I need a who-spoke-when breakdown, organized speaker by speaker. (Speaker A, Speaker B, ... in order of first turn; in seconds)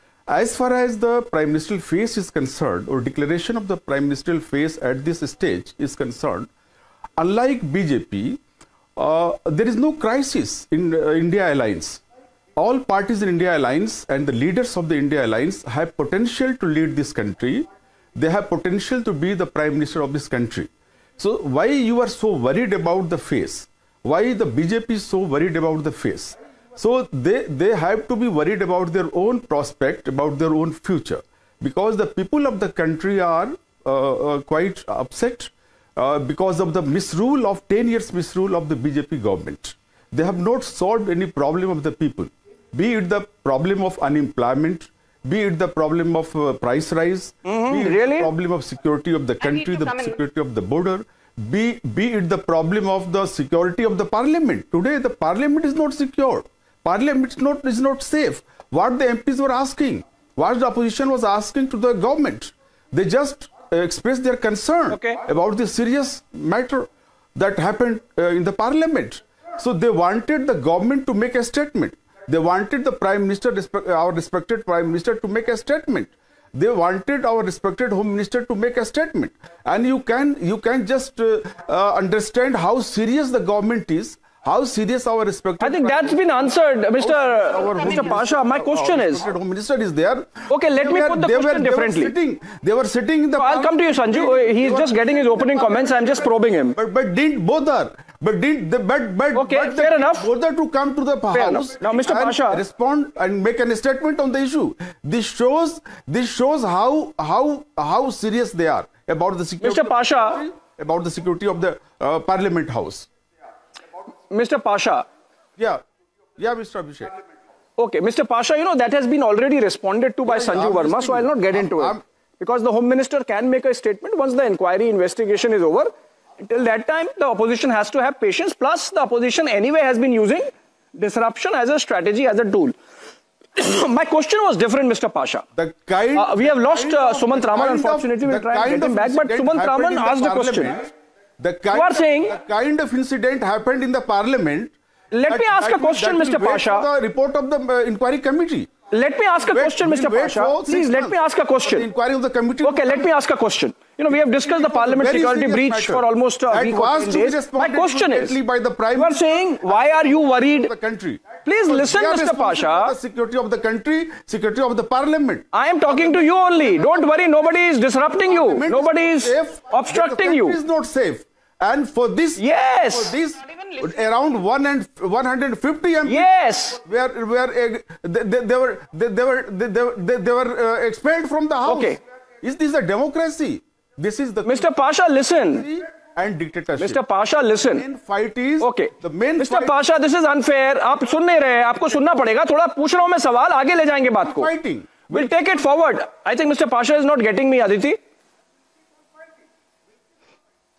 Speaker A: 0.3-6.5, 7.2-8.4, 9.0-12.0, 12.6-96.0, 96.8-113.1, 116.4-117.1, 120.3-122.0, 135.6-144.7, 145.3-148.7, 149.5-153.1, 154.3-165.5, 168.3-176.3, 176.8-184.7, 185.5-187.0, 187.6-189.8, 194.2-195.4
Speaker B: 47.5-48.3, 64.9-65.2, 85.6-89.2, 90.5-92.1, 93.4-96.8, 99.3-100.3, 101.3-102.6, 109.6-110.4, 114.3-115.1, 117.8-125.9, 126.4-132.7, 133.6-135.4, 136.2-140.8, 141.7-142.4, 145.1-146.9, 148.9-151.9, 152.6-158.4, 159.0-160.7, 161.4-162.9, 165.5-170.6, 172.4-173.2, 176.1-176.8, 181.7-182.0, 184.5-185.7, 186.8-187.9, 188.6-194.5, 195.1-198.0